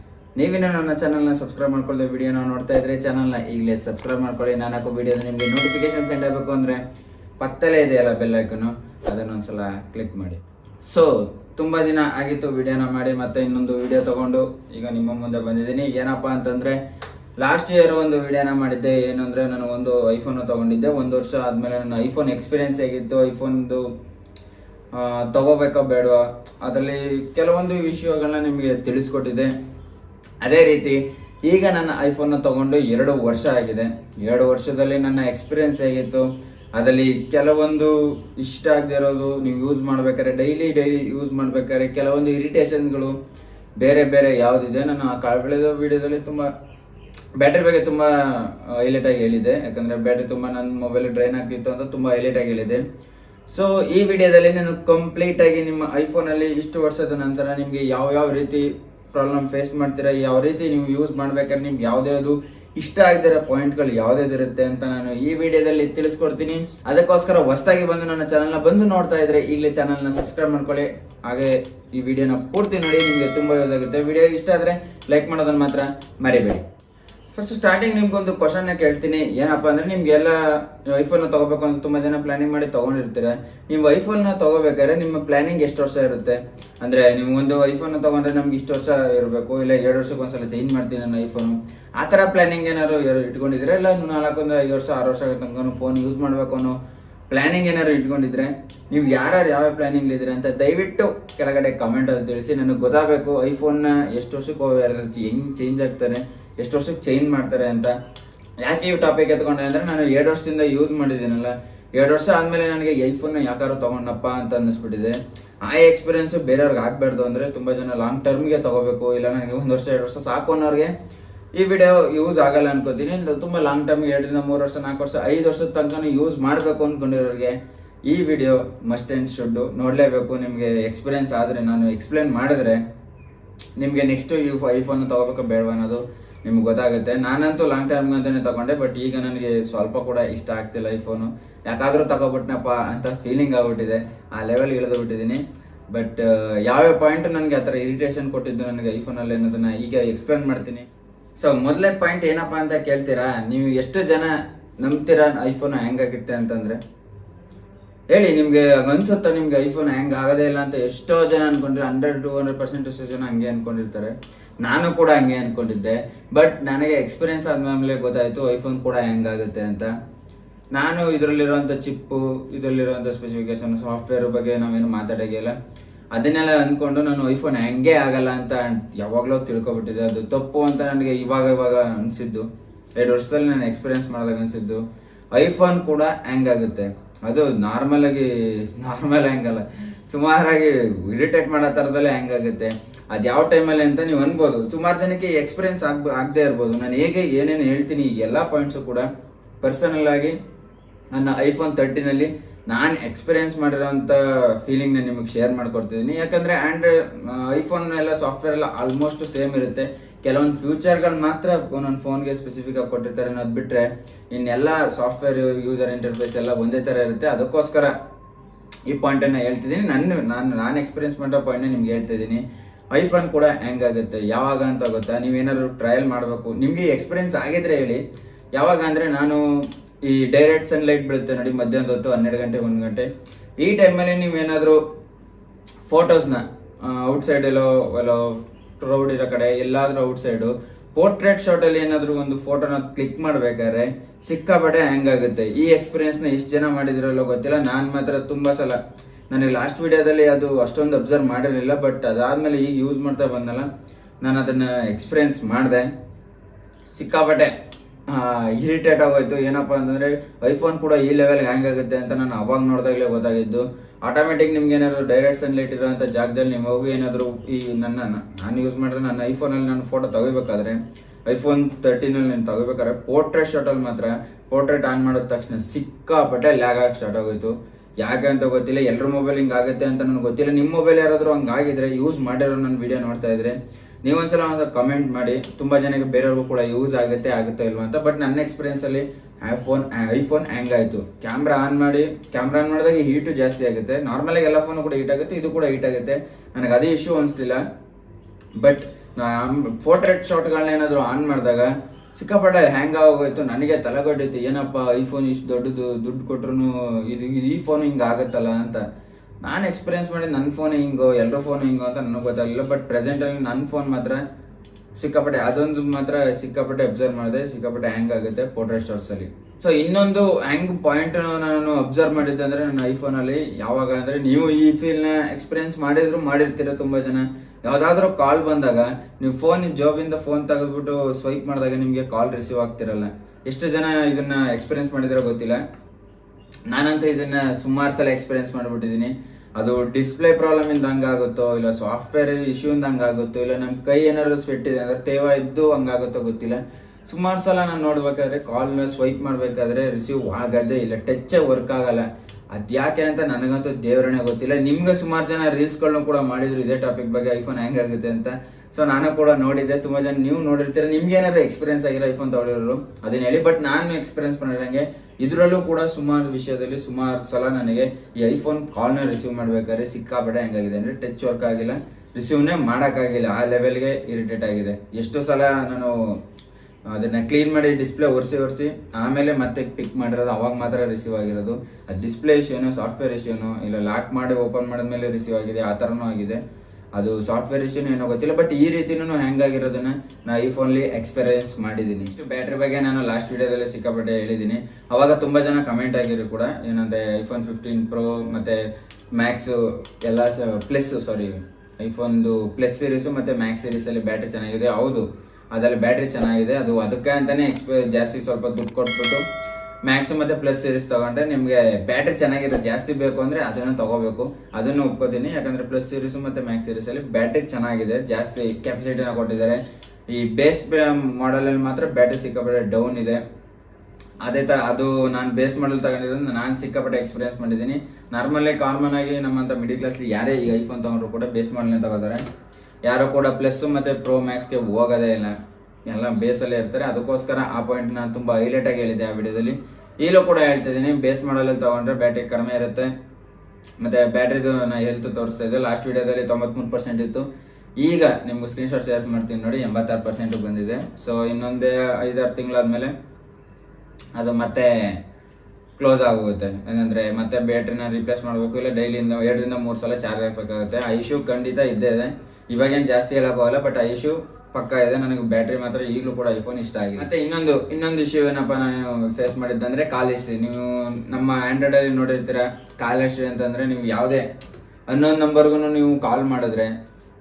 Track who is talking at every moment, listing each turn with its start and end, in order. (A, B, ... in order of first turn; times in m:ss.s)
0:00.4-0:06.8 A
0:07.4-0:16.8 A
0:17.4-0:23.9 A
0:24.9-0:29.5 A
0:30.4-0:43.2 A
0:43.8-0:46.5 A
0:47.4-0:52.8 A
0:53.5-1:16.6 A
1:17.3-1:36.8 A
1:37.3-1:47.9 A
1:48.6-2:00.9 A
2:01.5-2:07.6 A
2:08.1-2:12.8 A
2:13.8-2:30.8 A
2:31.4-2:36.8 A
2:38.1-2:49.9 A
2:50.7-2:55.5 A
2:56.1-3:04.8 A
3:05.3-3:19.0 A
3:19.6-3:20.3 A
3:21.1-3:37.9 A
3:38.9-3:48.0 A
3:48.5-3:49.4 A
3:50.0-3:53.1 A
3:53.6-3:54.8 A
3:55.8-4:08.8 A
4:09.3-4:13.7 A
4:14.2-4:15.9 A
4:16.9-4:17.5 A
4:18.1-4:57.6 A
4:58.6-5:08.8 A
5:09.4-5:14.2 A
5:15.0-5:35.6 A
5:36.7-6:16.0 A
6:16.9-6:26.4 A
6:26.9-6:38.6 A
6:39.1-6:49.2 A
6:49.8-7:03.2 A
7:04.2-7:12.2 A
7:12.8-7:15.3 A
7:15.8-7:22.9 A
7:23.8-7:27.3 A
7:27.8-7:32.9 A
7:34.1-7:35.0 A
7:35.8-7:54.2 A
7:54.9-7:56.7 A